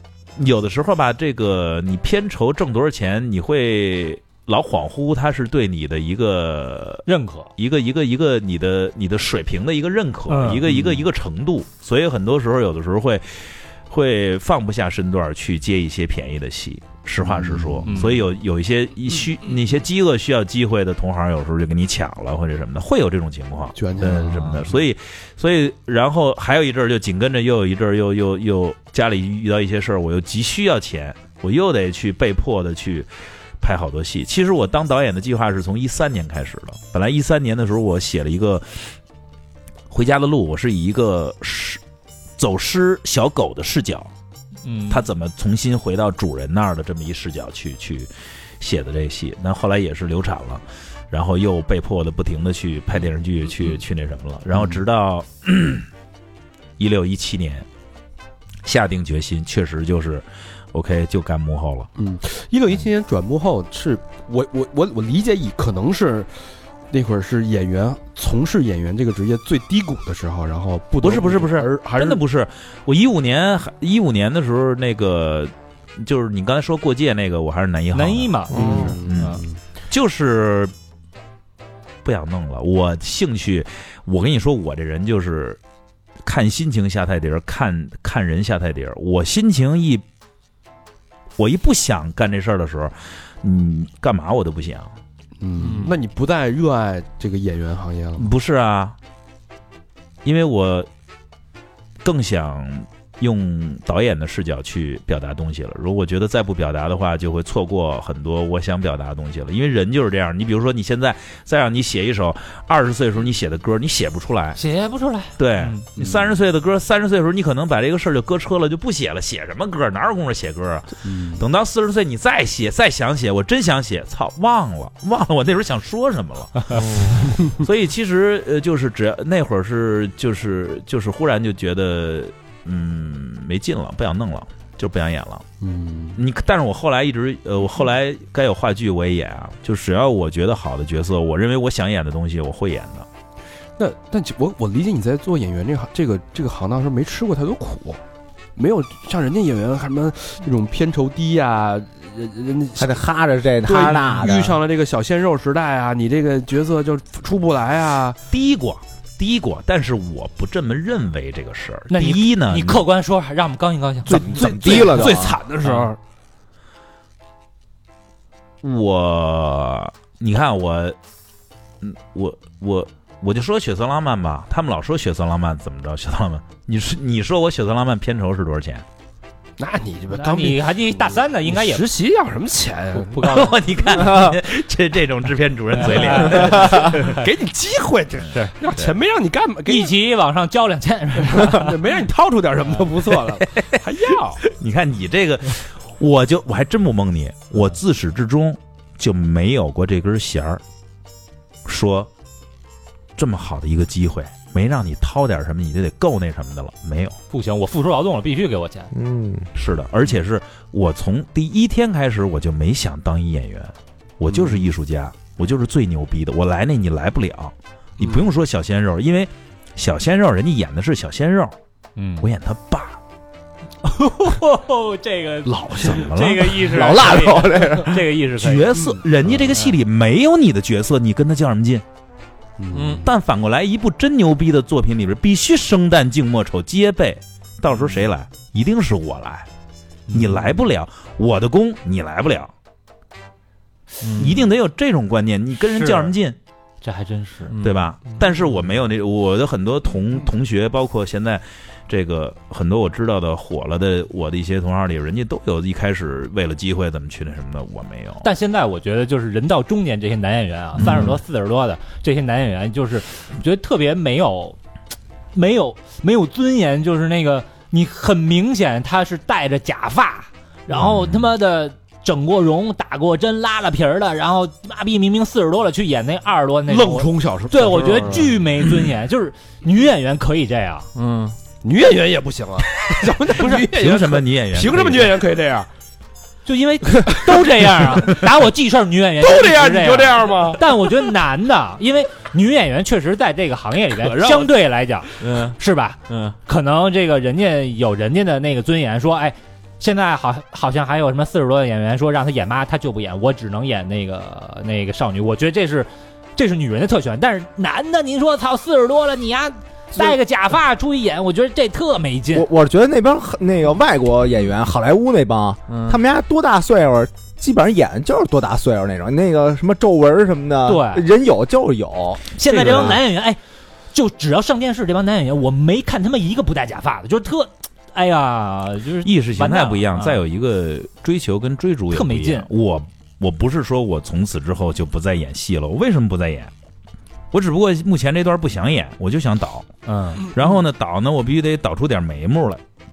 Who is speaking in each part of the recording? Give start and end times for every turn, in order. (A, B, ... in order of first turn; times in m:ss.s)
0:00.4-0:07.0 A
0:07.1-0:07.5 B
0:07.6-0:33.1 A
0:10.3-0:10.6 B
0:17.2-0:18.0 C
0:17.9-0:18.2 B
0:23.8-0:24.8 C
0:33.6-0:39.0 A
0:39.9-0:41.8 A
0:42.4-0:44.1 A
0:44.6-0:45.1 B
0:44.9-0:48.1 A
0:48.6-0:55.9 A
0:54.5-0:54.8 C
0:56.8-0:57.7 A
0:58.6-1:01.9 A
1:02.0-1:06.4 C
1:06.9-1:12.2 C
1:11.0-1:20.7 A
1:17.9-1:19.4 B
1:18.5-1:19.0 D
1:18.5-1:19.6 C
1:22.0-1:25.6 A
1:26.2-1:30.0 A
1:31.4-1:34.9 A
1:35.4-1:38.3 C
1:35.6-1:36.0 E
1:38.2-1:39.0 A
1:40.2-1:40.9 A
1:42.0-1:54.6 A
1:54.6-1:55.8 B
1:55.4-2:15.4 A
1:56.0-1:56.3 C
2:01.1-2:01.4 C
2:07.0-2:07.5 C
2:15.6-2:16.2 C
2:16.2-2:23.1 A
2:23.8-2:28.0 C
2:28.6-2:32.9 C
2:32.8-2:34.6 D
2:33.6-2:38.2 C
2:38.3-2:42.8 A
2:41.9-2:45.1 B
2:44.1-2:45.4 D
2:44.1-2:46.0 C
2:45.6-2:45.9 B
2:48.6-2:51.0 A
2:51.8-2:58.8 A
2:59.6-3:04.2 C
3:00.1-3:01.8 B
3:03.2-3:07.1 A
3:03.2-3:03.5 B
3:05.8-3:07.2 B
3:05.8-3:09.9 C
3:08.3-3:08.5 B
3:09.7-3:11.8 B
3:11.3-3:14.4 C
3:14.4-3:20.6 A
3:21.7-3:22.1 A
3:23.2-3:27.2 A
3:27.3-3:28.9 B
3:28.9-3:29.5 D
3:29.6-3:41.6 A
3:34.3-3:34.7 C
3:38.0-3:38.3 C
3:42.0-3:42.3 B
3:42.2-3:43.0 A
3:43.8-3:48.8 B
3:45.5-3:46.1 C
3:45.8-3:46.6 A
3:46.6-3:48.0 D
3:48.4-3:51.8 A
3:48.7-3:49.5 C
3:52.6-3:53.1 C
3:53.0-3:59.5 A
4:00.1-4:00.5 B
4:00.1-4:02.5 A
4:04.0-4:04.4 E
4:04.2-4:06.4 A
4:05.7-4:06.2 B
4:06.8-4:07.6 B
4:07.5-4:07.8 E
4:07.6-4:18.3 A
4:18.2-4:24.6 B
4:20.8-4:21.2 A
4:25.3-4:40.9 B
4:30.7-4:31.2 A
4:36.7-4:38.3 C
4:41.0-4:41.4 E
4:41.6-4:45.7 C
4:43.3-4:43.7 B
4:43.5-4:45.2 A
4:46.4-5:12.5 B
4:49.2-4:50.7 C
4:54.1-4:54.4 E
4:55.2-4:56.4 E
5:12.3-5:22.9 D
5:15.7-5:16.0 E
5:20.6-5:21.1 B
5:22.4-5:23.4 B
5:22.5-5:23.0 A
5:23.9-5:30.2 B
5:29.0-5:36.5 A
5:31.9-5:32.5 B
5:37.3-5:42.6 A
5:39.9-5:40.3 B